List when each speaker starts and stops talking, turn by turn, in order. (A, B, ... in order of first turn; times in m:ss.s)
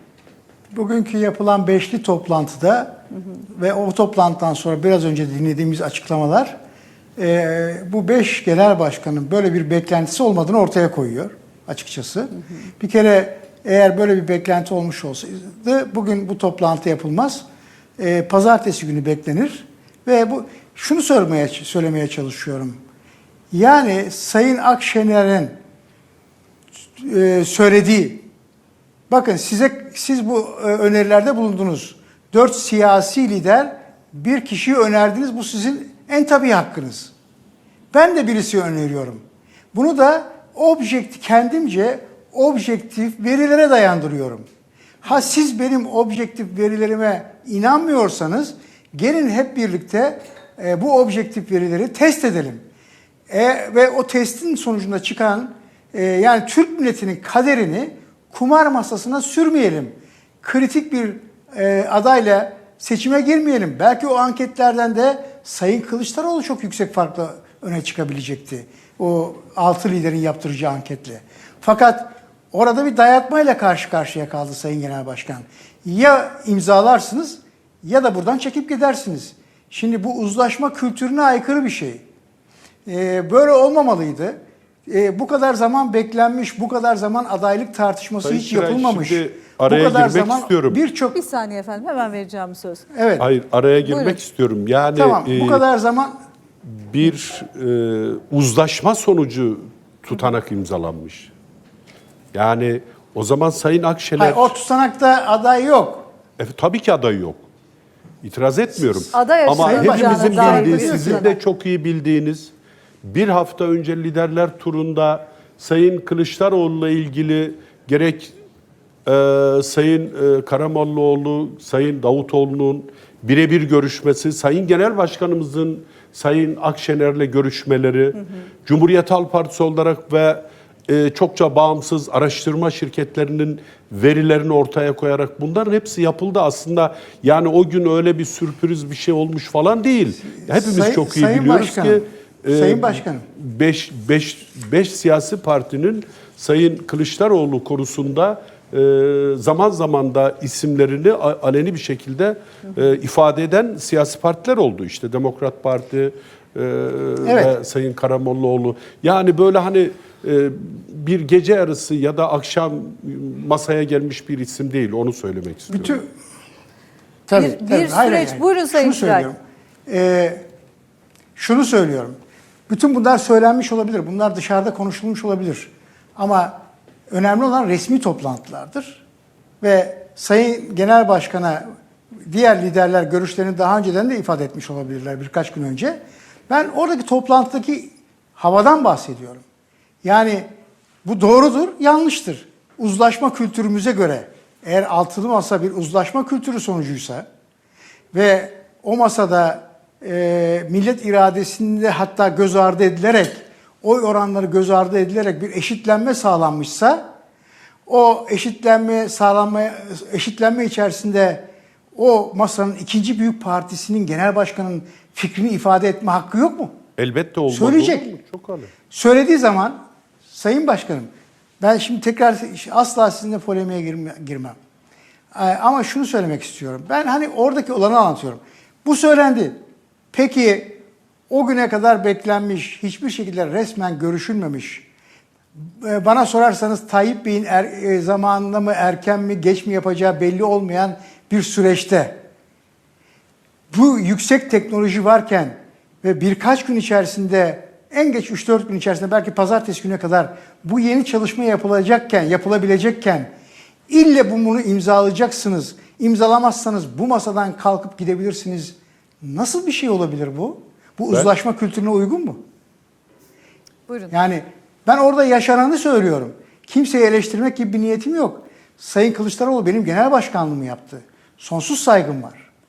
0:00.7-0:06.6 A
0:07.2-0:17.4 A
0:18.0-0:22.8 A
0:23.5-0:25.6 A
0:27.0-0:28.3 A
0:29.1-0:37.1 A
0:37.9-0:44.4 A
0:45.0-0:52.6 A
0:53.3-1:22.0 A
1:22.9-1:31.2 A
1:28.2-1:30.8 B
1:31.1-1:32.8 C
1:32.9-1:33.3 A
1:33.2-1:35.6 B
1:33.8-1:34.2 C
1:35.0-1:36.1 A
1:36.6-1:41.3 B
1:42.3-1:44.6 B
1:44.2-1:46.1 A
1:46.4-1:47.5 B
1:48.2-1:52.5 B
1:49.1-1:51.4 C
1:49.6-1:51.3 A
1:53.0-1:58.3 B
1:59.1-2:46.0 B
2:20.4-2:23.2 A
2:37.2-2:37.5 A
2:45.7-2:46.1 A
2:47.3-2:50.4 A
2:47.3-2:49.3 C
2:51.4-2:52.2 A
2:52.7-2:56.6 A
2:57.1-2:59.0 A
2:59.6-3:01.6 A
3:02.3-3:09.4 A
3:10.0-3:10.5 A
3:11.0-3:17.3 A
3:18.1-3:27.0 A
3:27.9-3:36.8 A
3:37.0-3:38.7 B
3:37.5-3:38.1 A
3:38.9-3:44.6 A
3:45.3-3:49.6 A
3:50.1-3:54.9 A
3:55.6-4:02.2 A
4:03.7-4:13.3 A
4:13.9-4:22.4 A
4:23.9-4:24.1 C
4:24.1-4:32.5 A